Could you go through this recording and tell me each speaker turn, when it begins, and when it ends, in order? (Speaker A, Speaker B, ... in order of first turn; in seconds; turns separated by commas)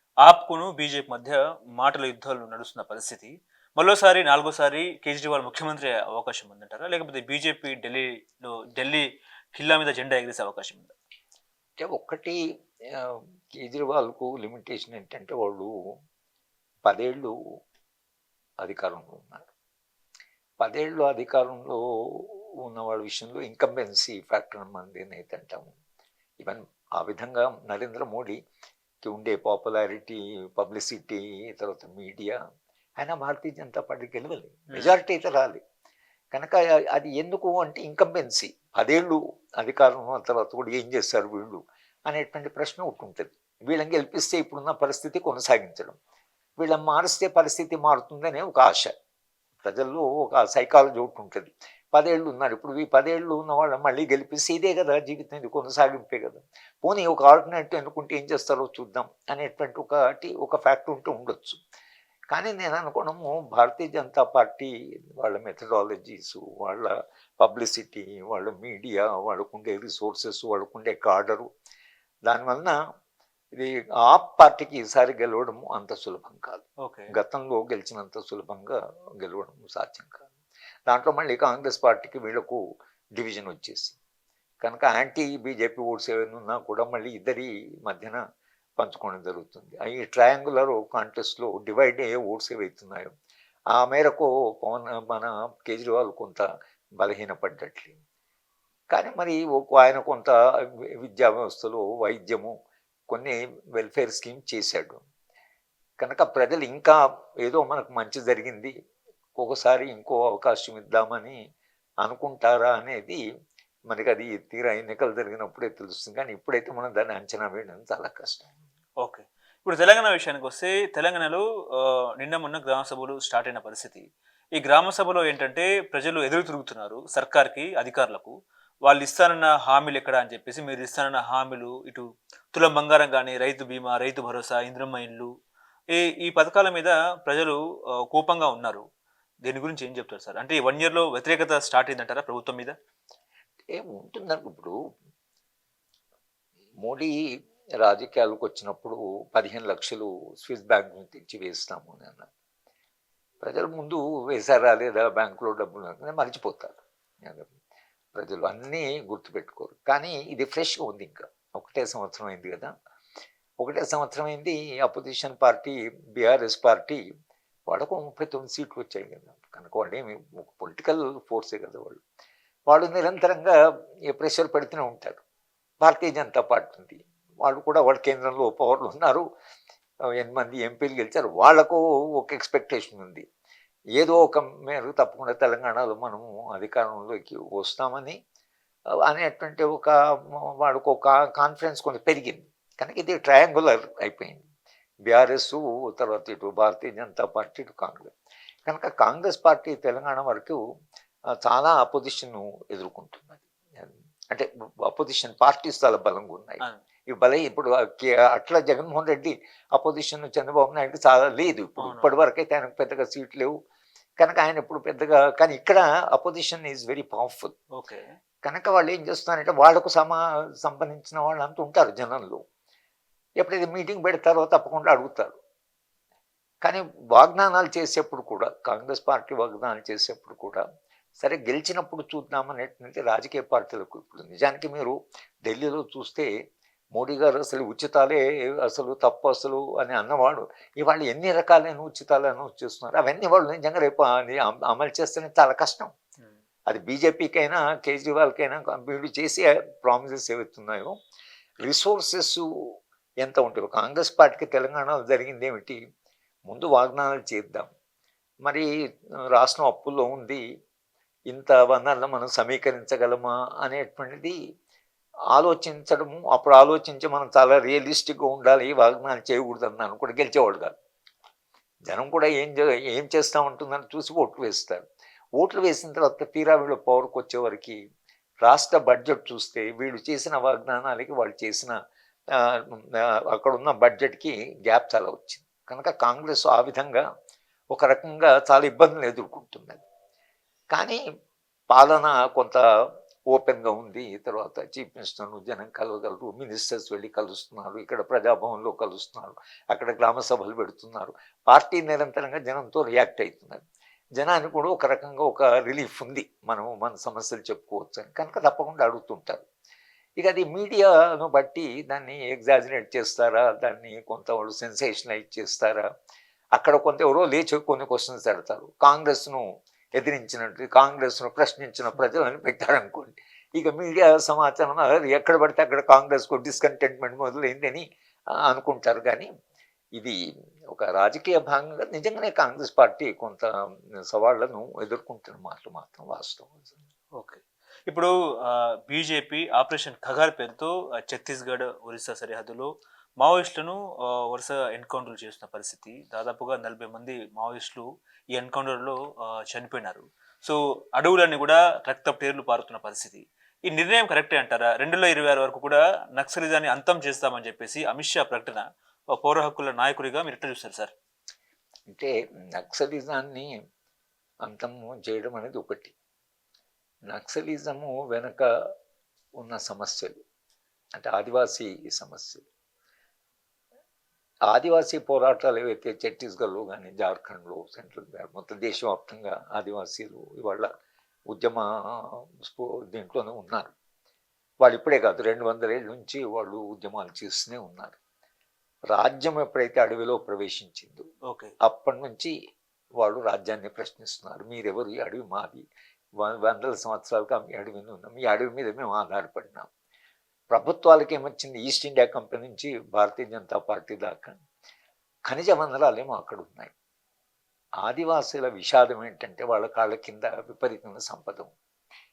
Speaker A: 0.2-10.9, Speaker B: 11.8-12.4, Speaker B: 12.9-15.7, Speaker B: 16.9-17.3, Speaker B: 18.6-19.5, Speaker B: 20.6-25.7, Speaker B: 26.4-28.4, Speaker B: 29.0-32.4, Speaker B: 33.0-35.6, Speaker A: 34.7-35.0, Speaker B: 36.3-46.0, Speaker B: 46.6-48.9, Speaker B: 49.6-61.6, Speaker B: 62.3-71.5, Speaker B: 72.3-72.8, Speaker B: 73.5-76.6, Speaker A: 76.8-77.1, Speaker B: 77.2-80.2, Speaker B: 80.9-82.6, Speaker B: 83.2-84.0, Speaker B: 84.6-88.2, Speaker B: 88.8-93.1, Speaker B: 93.7-96.5, Speaker B: 97.0-98.0, Speaker B: 98.9-102.5, Speaker B: 103.1-105.0, Speaker B: 106.0-108.7, Speaker B: 109.4-111.4, Speaker B: 112.0-113.2, Speaker B: 113.9-118.5, Speaker A: 119.0-124.1, Speaker A: 124.6-128.3, Speaker A: 128.8-135.3, Speaker A: 135.9-137.6, Speaker A: 138.1-138.9, Speaker A: 139.4-142.8, Speaker B: 143.7-144.8, Speaker B: 146.8-147.2, Speaker B: 147.8-152.3, Speaker B: 153.4-157.5, Speaker B: 158.1-162.7, Speaker B: 163.6-167.0, Speaker B: 167.7-172.0, Speaker B: 172.7-173.6, Speaker B: 174.1-175.2, Speaker B: 175.8-179.3, Speaker B: 180.2-183.2, Speaker B: 184.0-188.2, Speaker B: 188.9-194.4, Speaker B: 195.1-198.1, Speaker B: 198.7-200.6, Speaker B: 201.4-213.6, Speaker A: 211.8-212.2, Speaker B: 214.2-217.5, Speaker A: 217.8-218.1, Speaker B: 218.4-222.4, Speaker B: 223.4-225.3, Speaker B: 226.6-230.6, Speaker B: 231.2-236.3, Speaker B: 236.9-245.9, Speaker B: 246.7-250.9, Speaker B: 251.6-252.7, Speaker B: 253.2-255.8, Speaker B: 256.5-257.7, Speaker B: 259.3-260.4, Speaker B: 261.3-264.4, Speaker B: 265.3-270.7, Speaker B: 271.9-274.8, Speaker B: 275.4-277.8, Speaker B: 278.4-281.8, Speaker B: 282.3-287.0, Speaker B: 287.7-289.8, Speaker B: 290.7-291.0, Speaker B: 291.7-303.6, Speaker B: 304.2-309.4, Speaker B: 310.2-315.8, Speaker B: 316.6-319.4, Speaker B: 320.0-327.9, Speaker B: 328.4-329.3, Speaker B: 330.7-333.5, Speaker B: 334.0-336.8, Speaker A: 337.1-342.7, Speaker A: 343.2-360.9, Speaker B: 361.9-363.5, Speaker B: 364.4-365.9, Speaker B: 367.1-368.5, Speaker B: 369.4-370.2, Speaker B: 370.9-372.4, Speaker B: 374.5-380.7, Speaker B: 381.3-383.7, Speaker B: 384.6-388.0, Speaker B: 388.9-391.1, Speaker A: 391.3-391.5, Speaker B: 391.6-392.3, Speaker B: 393.0-395.6, Speaker B: 396.2-399.7, Speaker B: 400.5-404.4, Speaker B: 405.3-406.7, Speaker B: 407.8-411.5